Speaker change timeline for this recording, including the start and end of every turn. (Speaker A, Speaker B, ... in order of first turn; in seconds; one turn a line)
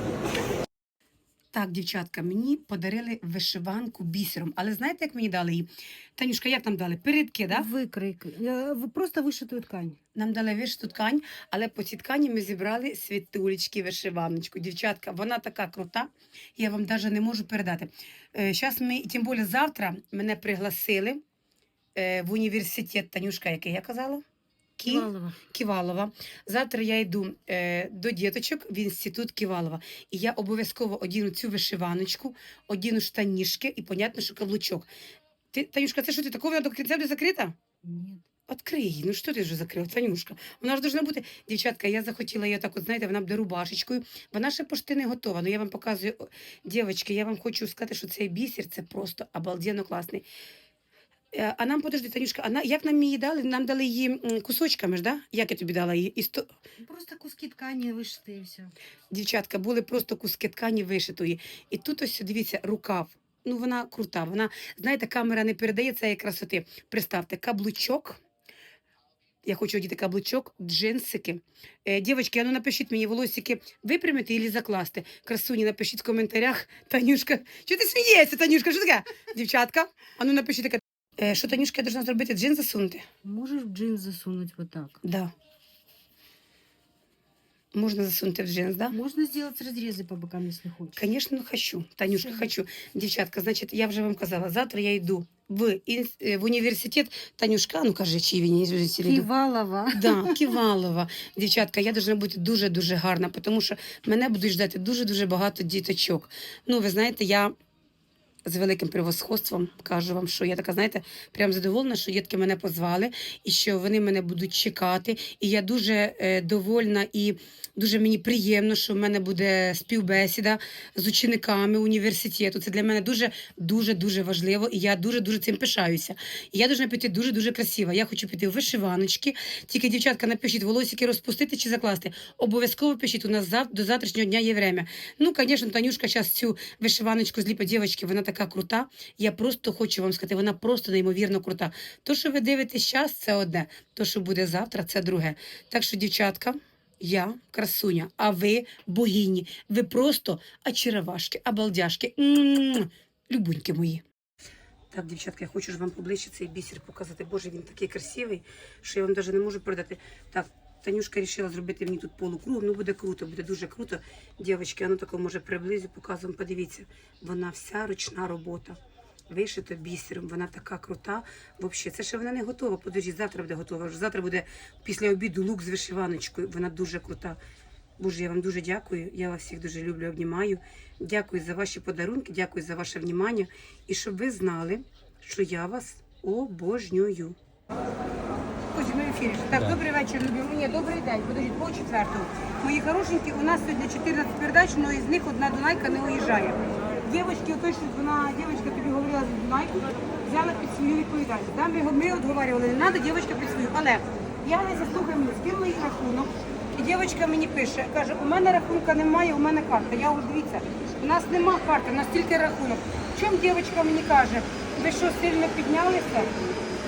Speaker A: 1.5-7.7
Speaker B: 7.5-10.0
Speaker A: 10.2-21.2
Speaker A: 22.0-24.2
Speaker A: 24.8-34.9
Speaker B: 24.9-25.4
Speaker A: 35.5-37.6
Speaker B: 37.8-38.2
Speaker A: 38.5-50.2
Speaker A: 51.3-56.5
Speaker B: 56.8-58.7
Speaker A: 59.1-68.2
Speaker A: 69.5-83.0
Speaker B: 83.2-85.0
Speaker A: 85.0-85.3
Speaker A: 87.7-89.0
Speaker B: 88.9-91.1
Speaker A: 91.0-99.3
Speaker B: 99.0-100.6
Speaker A: 99.9-107.5
Speaker A: 108.5-154.0
Speaker A: 154.9-168.8
Speaker A: 169.3-177.4
Speaker A: 178.0-187.4
Speaker A: 188.7-216.3